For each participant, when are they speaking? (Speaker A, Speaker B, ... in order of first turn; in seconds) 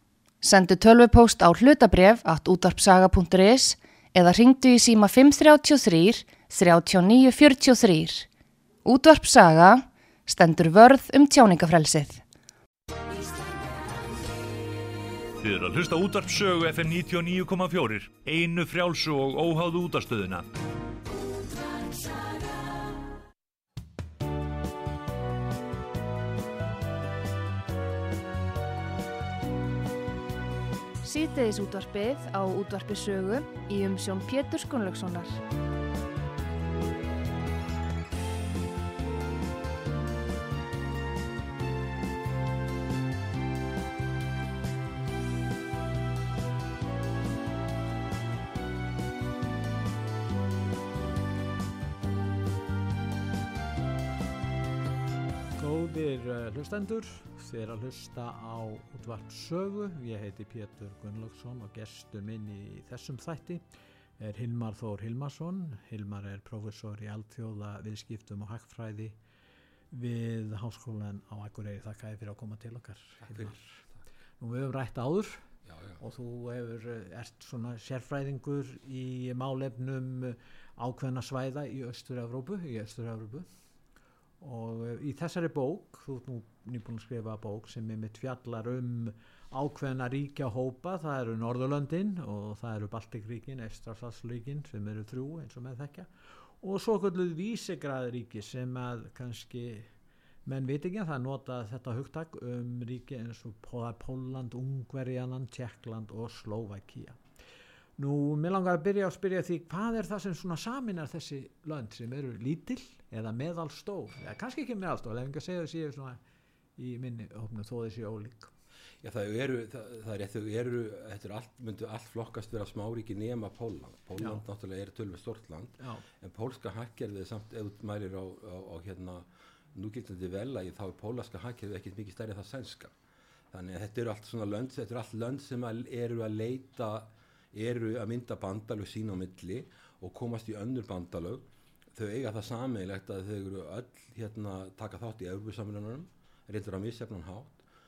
Speaker A: 0.4-8.3, 8.8-12.2, 31.0-35.4
Speaker B: 15.4-20.5
Speaker C: 55.6-63.6, 64.2-69.2, 69.9-73.8, 74.4-75.4, 76.0-83.5, 84.4-96.1, 96.6-99.9, 100.4-107.2, 108.0-116.2, 116.8-118.5
Speaker D: 75.7-76.0, 119.0-132.9, 133.5-147.6